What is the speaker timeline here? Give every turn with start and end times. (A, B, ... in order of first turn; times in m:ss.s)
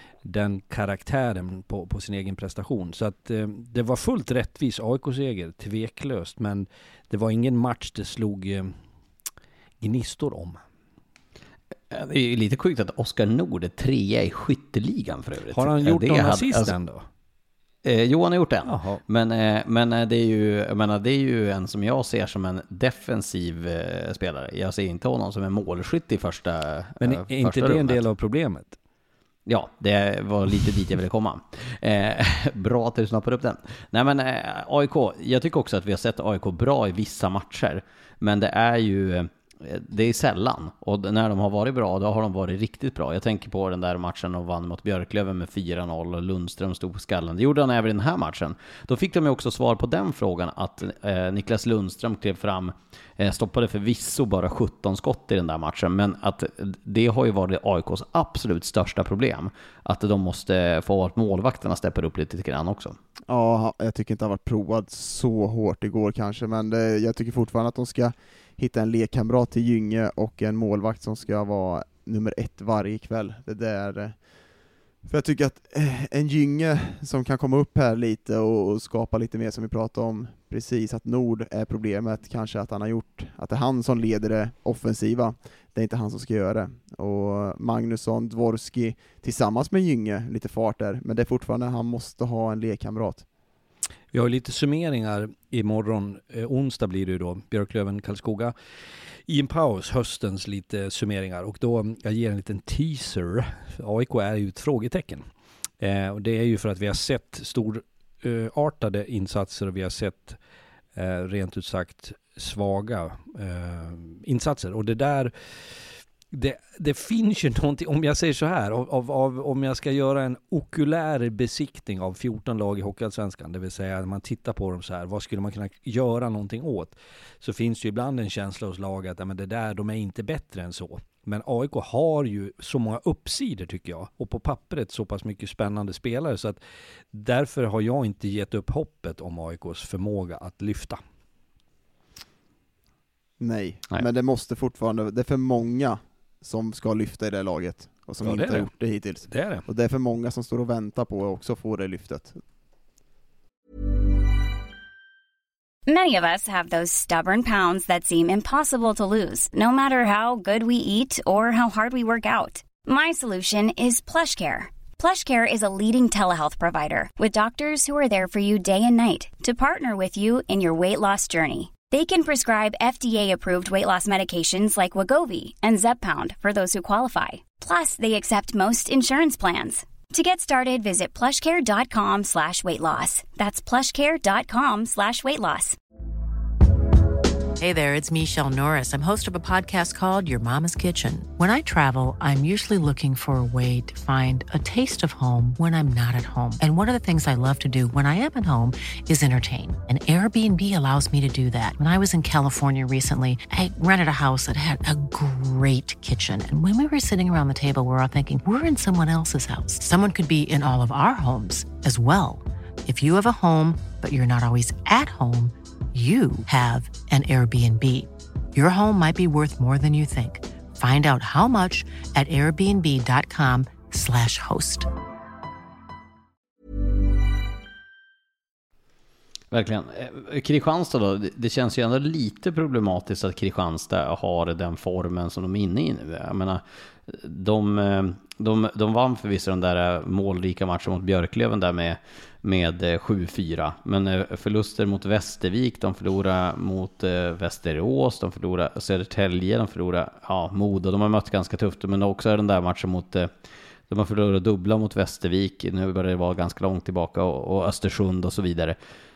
0:00.2-0:08.7 A
0:09.8-0:10.6 A
0:11.9-0:16.7 B
0:15.5-0:17.0 A
0:17.8-0:28.0 B
0:18.6-0:19.0 A
0:27.0-0:28.8 A
0:29.5-1:03.0 B
1:03.3-1:14.2 C
1:15.0-1:33.2 C
1:34.1-1:38.5 A
1:39.3-1:45.2 A
1:45.8-1:50.4 A
1:51.0-2:16.6 A
2:17.1-2:21.0 A
2:23.4-2:32.4 C
2:28.2-2:28.7 A
2:29.3-2:29.6 A
2:35.9-3:05.8 D
3:07.6-3:44.9 E
3:49.5-4:13.3 B
4:13.9-4:18.8 B